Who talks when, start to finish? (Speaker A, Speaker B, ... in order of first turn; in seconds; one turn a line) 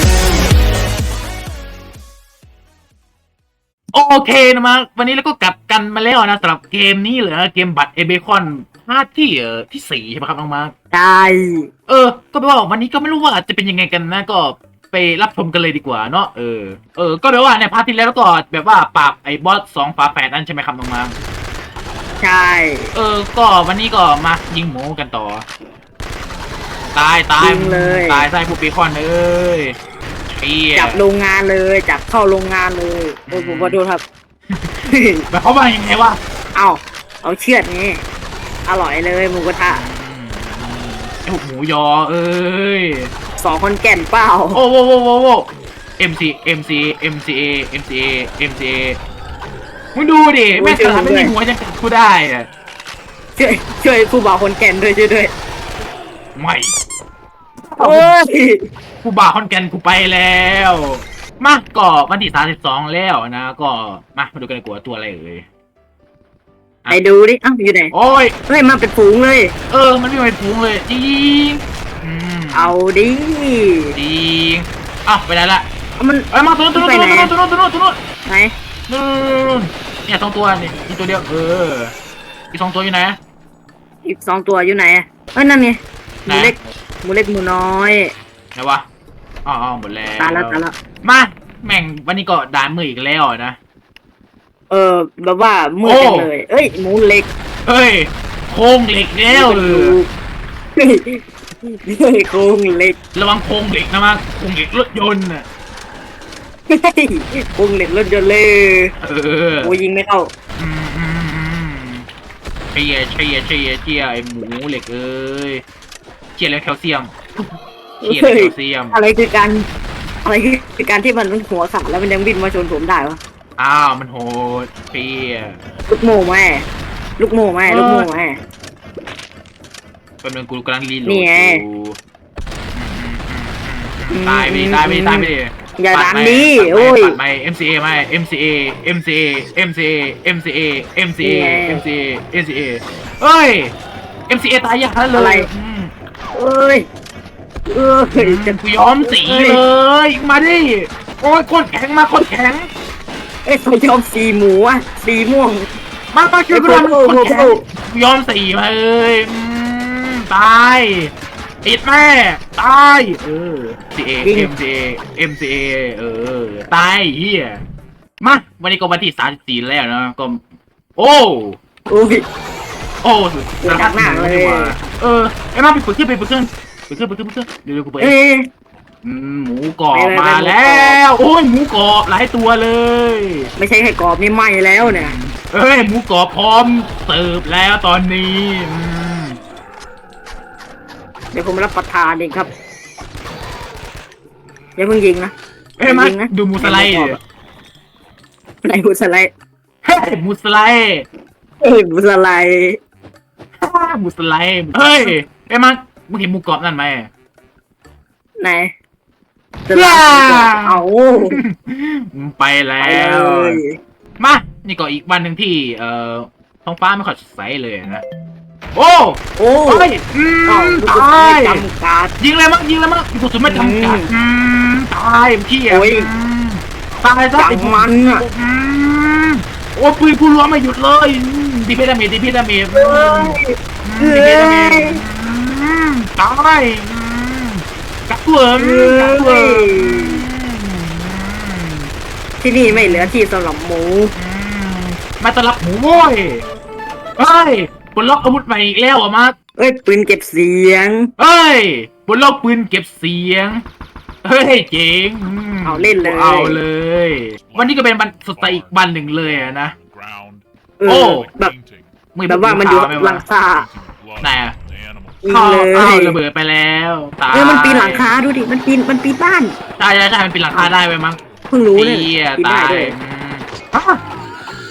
Speaker A: 3.9-10.7
Speaker B: 10.9-11.7
Speaker A: 11.9-21.1
Speaker B: 22.2-22.9
Speaker A: 22.9-25.4
Speaker A: 26.9-29.8
Speaker B: 27.4-28.2
Speaker A: 30.3-31.0
Speaker B: 30.8-34.0
Speaker A: 33.3-33.8
Speaker A: 34.5-36.2
Speaker B: 34.9-35.2
Speaker B: 36.5-38.0
Speaker B: 38.7-39.8
Speaker A: 39.7-43.1
Speaker B: 43.4-44.6
Speaker A: 44.5-45.5
Speaker A: 46.0-49.0
Speaker A: 50.0-52.5
Speaker B: 50.5-51.3
Speaker B: 53.4-55.3
Speaker A: 56.4-56.7
Speaker A: 57.7-58.1
Speaker B: 57.8-58.7
Speaker A: 59.0-65.5
Speaker B: 66.9-67.9
Speaker A: 67.9-68.3
Speaker B: 68.5-69.5
Speaker A: 69.7-72.7
Speaker B: 72.5-74.0
Speaker A: 74.0-75.7
Speaker B: 76.0-77.3
Speaker A: 76.3-78.0
Speaker B: 78.3-78.5
Speaker A: 78.9-81.9
Speaker A: 82.5-83.2
Speaker B: 84.0-88.1
Speaker A: 86.3-86.6
Speaker A: 88.6-88.9
Speaker A: 89.5-93.6
Speaker B: 90.2-90.7
Speaker B: 94.7-97.3
Speaker A: 95.8-96.3
Speaker A: 97.7-100.0
Speaker B: 99.3-100.1
Speaker B: 100.8-103.0
Speaker A: 103.2-105.5
Speaker B: 106.7-108.9
Speaker A: 109.0-109.8
Speaker B: 109.6-110.3
Speaker A: 110.6-112.1
Speaker A: 112.7-115.6
Speaker A: 116.4-117.1
Speaker A: 118.0-119.0
Speaker B: 118.0-119.7
Speaker B: 120.2-123.2
Speaker A: 123.6-125.6
Speaker B: 125.9-126.7
Speaker B: 127.2-128.4
Speaker A: 127.7-128.1
Speaker A: 130.2-132.0
Speaker B: 131.1-131.6
Speaker A: 132.7-143.7
Speaker B: 134.1-137.2
Speaker B: 141.2-141.8
Speaker A: 144.3-145.9
Speaker B: 145.1-145.5
Speaker B: 146.3-146.9
Speaker B: 147.7-149.6
Speaker A: 148.2-152.7
Speaker B: 153.5-155.7
Speaker A: 156.1-161.1
Speaker B: 156.5-157.6
Speaker A: 161.6-167.6
Speaker B: 164.2-164.5
Speaker A: 168.2-170.4
Speaker A: 171.0-171.6
Speaker B: 171.9-172.2
Speaker A: 173.0-178.1
Speaker B: 173.6-174.7
Speaker B: 178.0-178.5
Speaker A: 179.0-183.5
Speaker B: 179.9-181.0
Speaker B: 183.6-185.2
Speaker A: 184.8-189.4
Speaker B: 191.3-192.5
Speaker B: 194.8-197.2
Speaker A: 195.8-197.2
Speaker B: 198.6-199.3
Speaker A: 199.8-201.1
Speaker B: 201.6-202.8
Speaker A: 203.6-207.1
Speaker B: 208.4-208.7
Speaker B: 209.7-211.4
Speaker A: 209.7-213.6
Speaker B: 212.8-213.8
Speaker A: 214.2-218.0
Speaker A: 218.8-221.6
Speaker B: 219.4-219.9
Speaker B: 220.5-222.1
Speaker A: 222.2-241.9
Speaker B: 223.5-224.1
Speaker B: 225.7-226.1
Speaker B: 227.3-228.2
Speaker B: 232.8-235.0
Speaker B: 238.6-240.2
Speaker B: 242.4-244.1
Speaker A: 242.7-243.1
Speaker A: 244.2-246.4
Speaker A: 247.2-249.4
Speaker B: 249.6-251.1
Speaker A: 251.2-253.6
Speaker A: 254.2-259.8
Speaker B: 255.7-256.6
Speaker C: 259.8-260.4
Speaker B: 260.8-261.5
Speaker A: 260.9-261.3
Speaker C: 261.4-261.9
Speaker A: 262.1-263.2
Speaker B: 262.3-263.7
Speaker C: 263.6-265.2
Speaker A: 264.2-264.6
Speaker B: 265.2-266.2
Speaker A: 265.3-268.1
Speaker B: 267.3-269.6
Speaker A: 269.8-274.0
Speaker B: 271.5-272.9